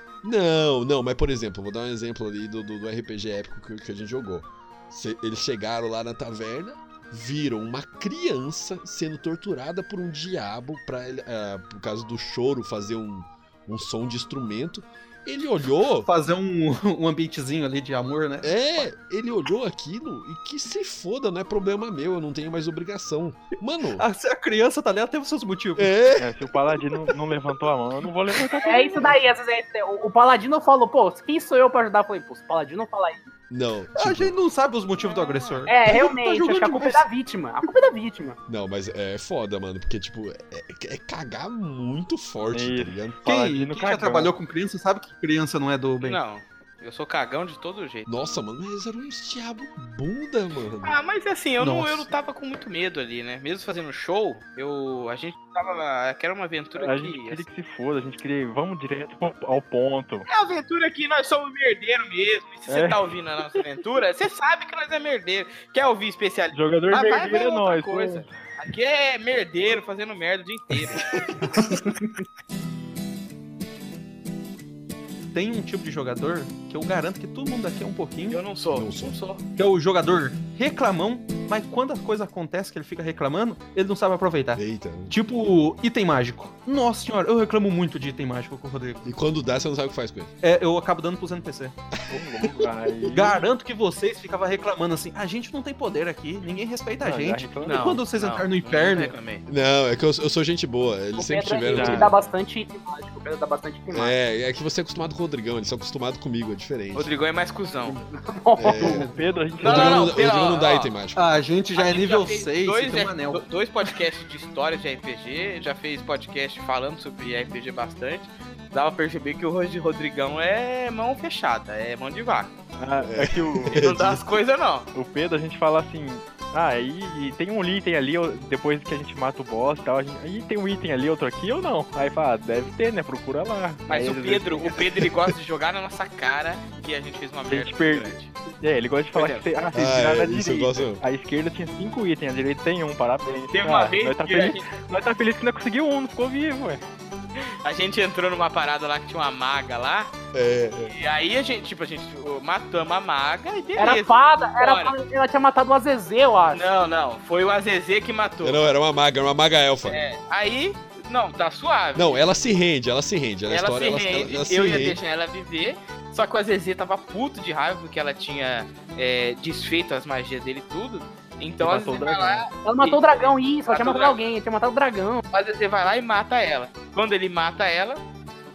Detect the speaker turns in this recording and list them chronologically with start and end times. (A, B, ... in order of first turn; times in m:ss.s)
0:00.2-0:16.1 A
0:16.0-0:18.9 B
0:18.4-0:24.0 A
0:24.0-0:26.0 B
0:25.8-0:26.5 A
0:26.2-0:29.2 C
0:28.6-0:29.1 B
0:28.6-0:33.3 D
0:33.5-0:34.3 A
0:34.0-0:37.1 B
0:35.1-0:35.6 E
0:35.7-0:38.4 D
0:38.5-0:43.3 A
0:42.5-0:44.3 C
0:43.2-0:46.2 B
0:46.0-0:48.1 E
0:48.1-0:51.0 A
0:50.8-0:57.4 E
0:51.6-0:52.1 B
0:56.8-1:00.3 C
1:00.3-1:11.0 E
1:02.7-1:03.0 C
1:06.5-1:08.3 C
1:11.3-1:11.7 B
1:15.3-1:18.4 B
1:18.3-1:19.4 E
1:18.7-1:19.2 A
1:19.6-1:29.1 B
1:24.6-1:25.2 A
1:29.0-1:30.3 A
1:30.4-1:31.8 B
1:32.0-1:33.1 A
1:32.1-1:33.4 C
1:33.1-1:39.2 B
1:37.0-1:37.9 C
1:37.6-1:39.4 E
1:39.5-1:42.2 A
1:41.2-1:44.2 D
1:41.7-1:42.2 C
1:43.9-1:47.1 A
1:46.9-1:48.0 E
1:48.1-1:49.1 D
1:48.6-1:49.1 A
1:48.8-1:50.2 C
1:48.8-1:49.1 B
1:49.6-1:51.0 E
1:49.6-1:51.2 A
1:51.2-1:53.5 B
1:51.8-2:02.5 E
2:02.8-2:03.8 C
2:03.0-2:04.4 A
2:03.7-2:04.9 E
2:04.9-2:14.8 C
2:13.9-2:18.3 E
2:17.5-2:26.8 C
2:19.1-2:19.5 E
2:19.7-2:21.0 A
2:23.5-2:24.6 E
2:27.4-2:30.1 E
2:30.3-2:30.9 A
2:30.8-2:35.0 E
2:33.8-2:36.7 D
2:36.5-2:38.6 E
2:38.4-2:40.0 A
2:39.8-2:42.2 E
2:42.0-2:45.0 A
2:43.5-2:54.2 E
2:51.6-2:52.5 C
2:52.6-2:55.2 D
2:55.3-2:58.0 E